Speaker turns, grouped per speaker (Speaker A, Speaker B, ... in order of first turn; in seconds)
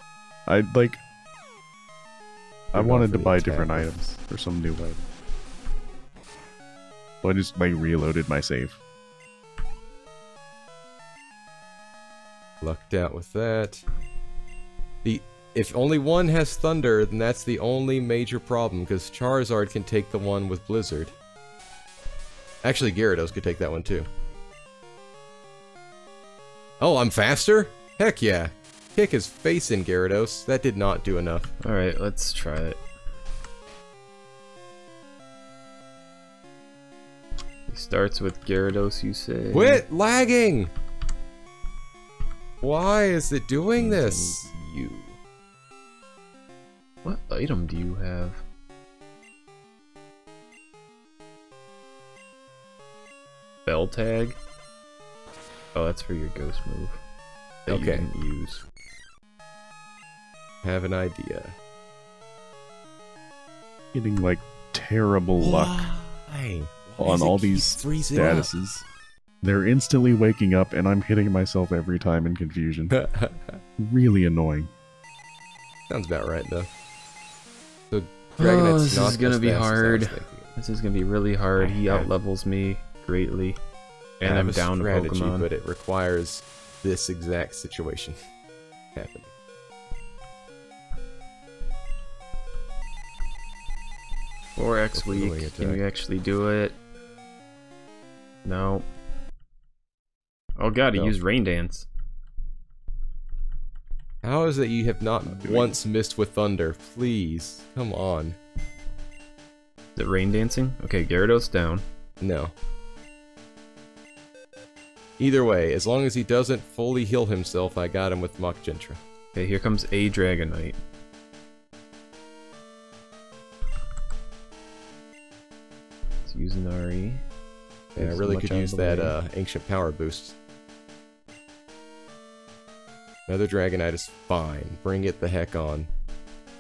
Speaker A: 0.5-1.0, 2.7-5.0, 7.2-8.8, 63.9-65.9, 67.0-68.8, 69.4-73.0, 73.8-74.7, 105.2-105.8
Speaker B: 2.7-4.2, 31.6-32.8, 37.7-39.8, 43.7-45.2, 47.0-48.4, 53.6-54.4, 55.7-57.0, 57.6-58.6, 78.4-83.6, 84.2-85.5, 94.5-96.8, 98.4-98.9, 100.6-101.9, 110.0-111.8, 119.3-120.8, 126.2-127.2, 127.9-129.2
Speaker C: 12.6-13.8, 15.0-21.1, 22.6-24.1, 26.8-31.5, 39.5-40.7, 42.6-44.5, 57.7-58.1, 60.6-61.5, 65.4-68.5, 72.9-73.6, 75.9-76.7, 77.9-80.5, 81.6-82.1, 84.2-88.2, 88.9-89.3, 94.9-95.8, 100.9-101.2, 104.2-108.4, 112.2-112.5, 115.2-119.0, 128.0-130.3, 133.3-135.9